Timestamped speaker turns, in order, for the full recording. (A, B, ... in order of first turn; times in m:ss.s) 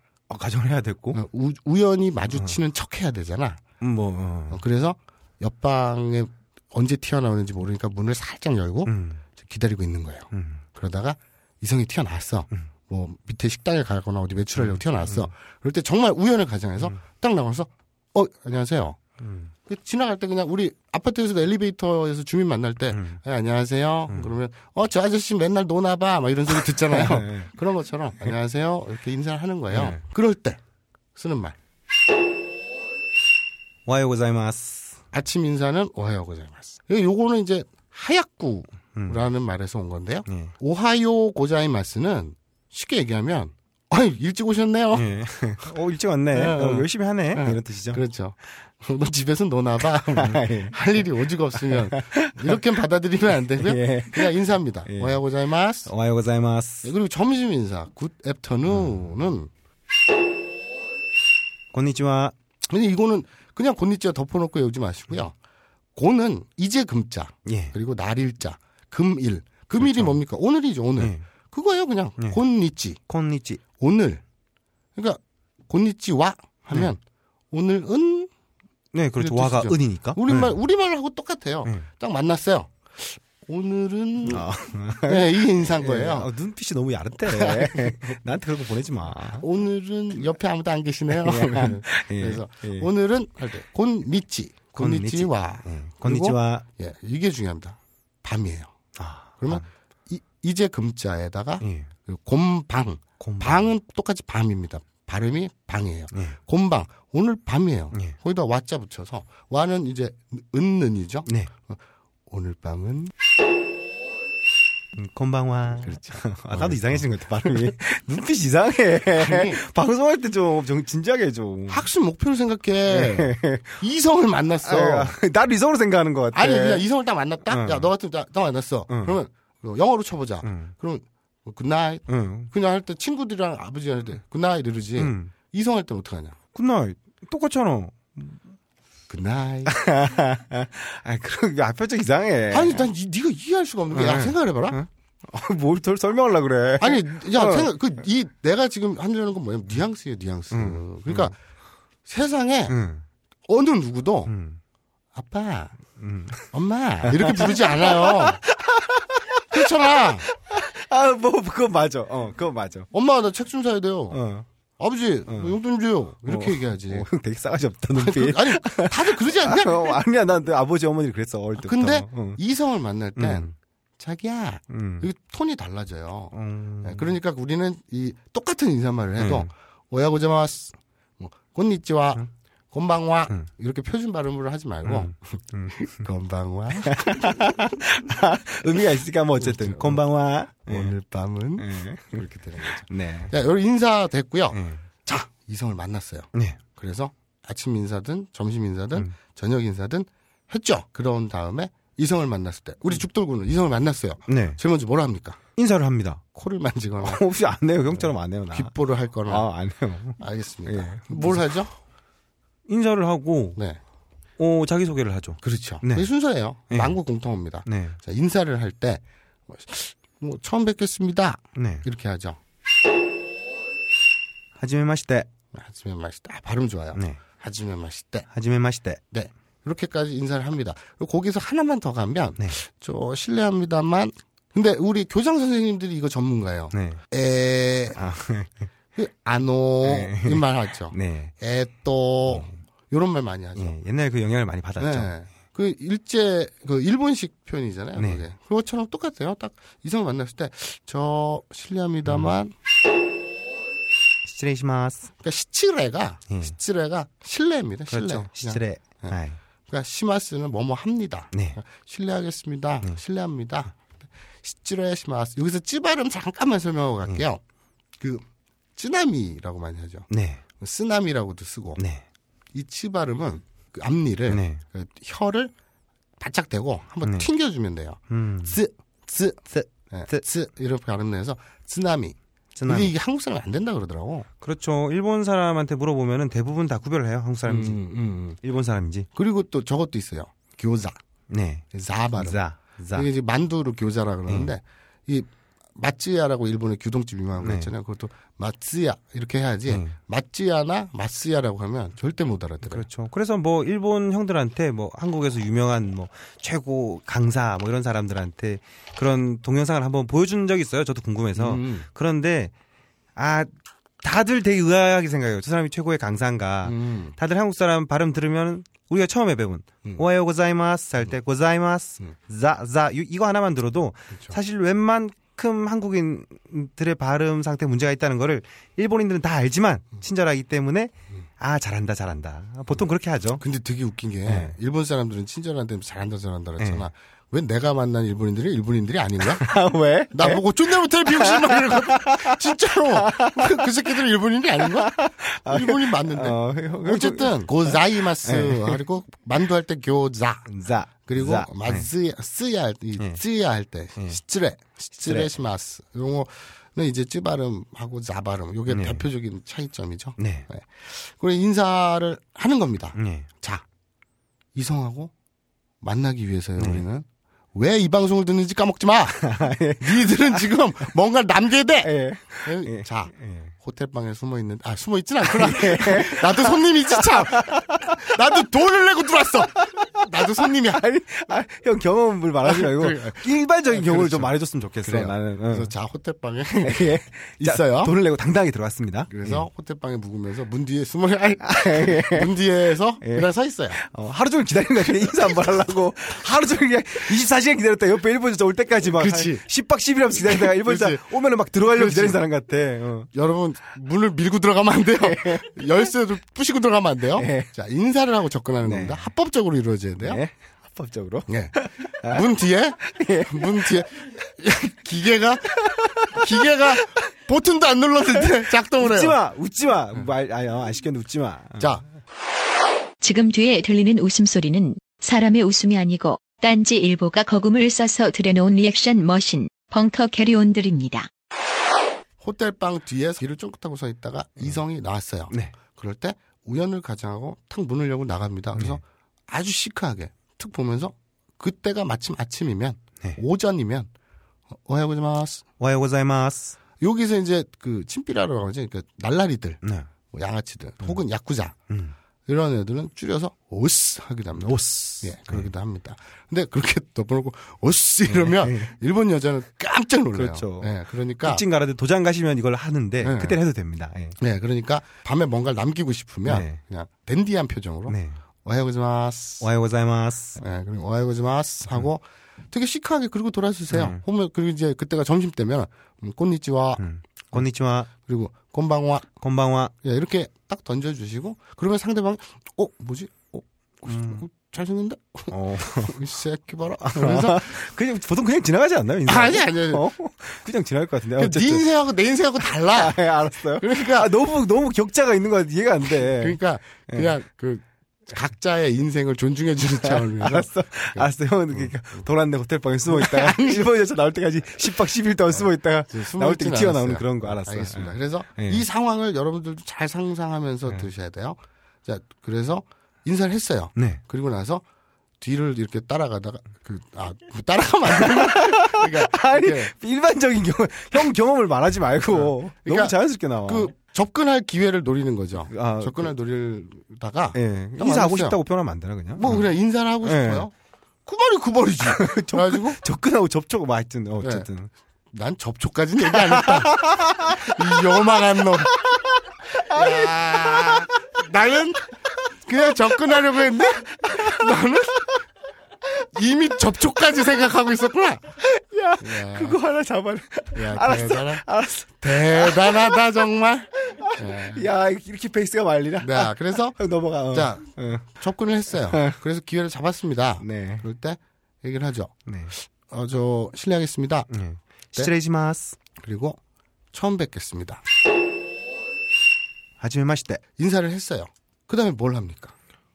0:00.3-0:01.2 A
0:01.1-0:03.6 B
0:03.8-0:04.6 A
0:04.5-0:19.0 B
0:08.8-0:09.2 A
0:10.3-0:10.6 A
0:14.6-0:15.3 A
0:19.2-0:19.5 A
0:19.7-0:30.6 B
0:22.9-0:23.2 A
0:26.5-0:27.5 A
0:29.7-0:30.0 A
0:31.2-0:31.6 B
0:33.8-0:35.0 A
0:35.1-0:45.0 B
0:39.0-0:39.2 A
0:40.3-0:40.5 A
0:44.9-0:48.0 A
0:46.3-0:55.9 B
0:50.1-0:51.0 A
0:51.5-0:52.6 A
0:53.6-0:55.2 A
0:55.9-0:56.9 A
0:56.8-0:59.5 B
0:58.7-0:59.0 A
1:01.7-1:02.3 A
1:02.7-1:05.3 B
1:06.0-1:13.0 B
1:07.4-1:07.7 A
1:09.8-1:10.2 A
1:11.0-1:11.2 A
1:13.1-1:13.6 A
1:13.8-1:14.2 B
1:15.0-1:17.0 B
1:17.5-1:18.3 B
1:18.9-1:20.5 A
1:19.2-1:24.4 B
1:24.3-1:29.4 A
1:25.0-1:26.3 B
1:27.3-1:28.2 B
1:29.4-1:38.7 B
1:31.2-1:32.9 A
1:34.7-1:36.6 A
1:39.0-1:39.6 A
1:39.4-1:51.8 B
1:41.6-1:41.9 A
1:43.2-1:43.7 A
1:46.1-1:46.4 A
1:52.3-1:53.1 B
1:55.0-2:01.8 A
1:55.7-1:57.0 B
1:59.2-1:59.6 B
2:01.7-2:05.2 B
2:02.9-2:03.8 A
2:04.6-2:06.8 A
2:06.3-2:16.4 B
2:07.5-2:07.9 A
2:08.9-2:09.2 A
2:10.4-2:10.7 A
2:12.1-2:12.5 A
2:15.0-2:15.3 A
2:16.5-2:18.4 A
2:19.1-2:19.7 B
2:19.7-2:22.9 A
2:22.5-2:24.8 B
2:23.9-2:27.7 A
2:26.8-2:31.3 B
2:30.5-2:31.3 A
2:32.0-2:32.8 B
2:32.7-2:33.0 A
2:33.5-2:34.3 B
2:34.3-2:34.6 A
2:35.1-2:35.7 B
2:36.0-2:36.5 A
2:36.5-2:38.4 B
2:37.0-2:42.9 A
2:39.5-2:40.2 B
2:42.9-2:44.2 B
2:44.1-2:44.4 A
2:44.8-2:47.1 B
2:45.3-2:45.6 A
2:46.2-2:52.4 A
2:47.9-2:50.0 B
2:51.6-3:07.3 B
2:53.2-2:53.5 A
2:54.7-2:55.1 A
2:56.3-2:57.1 A
2:59.2-2:59.5 A
3:04.8-3:06.0 A
3:06.8-3:10.9 A
3:09.4-3:10.0 B
3:10.6-3:25.4 B
3:11.6-3:12.2 A
3:12.8-3:13.3 A
3:14.5-3:14.8 A
3:24.3-3:24.6 A
3:25.6-3:26.2 A
3:26.3-3:27.2 B
3:27.0-3:28.7 A
3:27.9-3:29.5 B
3:29.2-3:31.6 A
3:30.2-3:31.7 B
3:32.7-3:33.6 A
3:34.4-3:36.1 A
3:35.4-3:42.4 B
3:36.7-3:37.0 A
3:37.6-3:38.0 A
3:41.6-3:41.8 A
3:44.6-3:45.3 A
3:45.5-3:48.3 B
3:46.9-3:47.2 A
3:48.3-3:49.0 A
3:49.1-3:58.0 B
3:56.7-3:57.0 A
3:58.0-3:58.6 A
3:59.0-4:03.7 B
3:59.8-4:01.3 A
4:02.3-4:02.5 A
4:03.6-4:05.1 A
4:04.8-4:12.5 B
4:08.0-4:08.2 A
4:12.0-4:12.3 A
4:14.2-4:15.1 A
4:15.2-4:19.2 B
4:16.3-4:16.5 A
4:17.9-4:19.4 A
4:19.7-4:23.7 B
4:21.3-4:21.6 A
4:24.4-4:27.4 B
4:28.8-4:30.1 B
4:30.1-4:30.4 A
4:30.6-4:31.8 B
4:31.8-4:32.0 A
4:32.5-4:35.5 B
4:34.3-4:34.6 A
4:36.2-4:42.2 B
4:37.0-4:37.3 A
4:38.1-4:38.6 A
4:39.5-4:40.2 A
4:42.6-4:42.9 A
4:42.7-4:44.3 B
4:44.4-4:47.8 A
4:47.4-4:48.4 B
4:48.4-4:49.1 A
4:49.1-4:51.0 B
4:51.3-4:53.1 A
4:51.7-4:52.4 B
4:52.9-5:02.8 B
4:57.4-4:57.7 A
4:59.7-4:59.9 A
5:02.6-5:12.5 A
5:11.3-5:11.8 B
5:13.2-5:13.5 A
5:14.0-5:33.4 A
5:16.6-5:17.1 B
5:33.4-5:39.5 B
5:34.2-5:34.5 A
5:36.6-5:36.9 A
5:39.3-5:43.7 A
5:40.1-5:50.5 B
5:44.6-5:48.8 A
5:50.5-5:51.9 A
5:51.0-6:03.6 B
5:55.0-5:55.3 A
5:58.7-5:59.0 A
6:00.2-6:00.5 A
6:03.0-6:03.3 A
6:04.5-6:05.1 B
6:05.8-6:20.8 B
6:06.6-6:06.8 A
6:09.2-6:10.4 A
6:11.8-6:13.5 A
6:15.2-6:18.0 A
6:19.6-6:19.9 A
6:20.4-6:25.7 A
6:22.4-6:24.3 B
6:24.8-6:27.9 B
6:26.6-6:29.4 A
6:29.1-6:33.8 B
6:31.4-6:32.3 A
6:33.0-6:43.1 A
6:38.9-6:39.4 B
6:40.2-6:41.0 B
6:41.6-6:42.2 B
6:43.1-6:50.2 B
6:45.0-6:45.8 A
6:47.2-6:47.5 A
6:48.6-6:49.0 A
6:50.0-6:52.3 A
6:51.3-6:59.2 B
6:52.8-6:53.8 A
6:55.6-6:56.4 A
6:58.8-7:01.8 A
7:01.6-7:01.8 B
7:03.0-7:11.1 C
7:12.2-7:23.9 B
7:18.5-7:18.8 A
7:24.6-7:25.4 B
7:25.6-7:26.6 A
7:26.8-7:29.6 B
7:29.6-7:29.9 A
7:30.1-7:31.6 B
7:31.7-7:31.9 A
7:32.2-7:41.4 B
7:34.4-7:35.5 A
7:38.1-7:38.7 A
7:40.1-7:44.2 A
7:43.0-7:43.4 B
7:44.2-7:49.4 B
7:46.2-7:46.6 A
7:47.9-7:48.2 A
7:49.4-7:50.4 A
7:50.4-7:59.1 B
7:53.7-7:54.0 A
7:56.8-7:57.9 A
7:59.2-7:59.7 A
7:59.8-8:07.5 B
8:03.9-8:04.2 A
8:05.3-8:06.0 A
8:06.8-8:11.6 A
8:09.1-8:09.8 B
8:11.2-8:13.0 B
8:12.6-8:17.1 A
8:13.6-8:14.1 B
8:15.8-8:22.0 B
8:19.8-8:28.6 A
8:22.9-8:23.6 B
8:25.3-8:34.6 B
8:33.8-8:34.0 A
8:35.2-8:39.7 B
8:38.0-8:43.7 A
8:42.1-8:48.4 B
8:45.5-8:46.1 A
8:47.3-8:49.4 A
8:49.2-8:50.5 B
8:50.0-8:50.4 A
8:51.0-8:52.8 B
8:51.8-8:54.7 A
8:54.2-8:54.4 B
8:55.1-8:58.8 B
8:56.0-8:58.0 A
8:58.7-9:00.9 A
8:59.6-9:01.9 B
9:02.4-9:05.2 B
9:03.6-9:05.1 A
9:06.1-9:08.2 B
9:08.4-9:13.2 A
9:09.0-9:09.6 B
9:10.5-9:11.4 B
9:12.0-9:14.7 B
9:13.9-9:18.1 A
9:16.0-9:24.3 B
9:18.7-9:19.2 A
9:20.4-9:20.8 A
9:22.2-9:22.5 A
9:24.3-9:25.8 A
9:26.0-9:26.4 B
9:26.9-9:27.8 B
9:29.8-9:30.4 A
9:30.6-9:32.5 B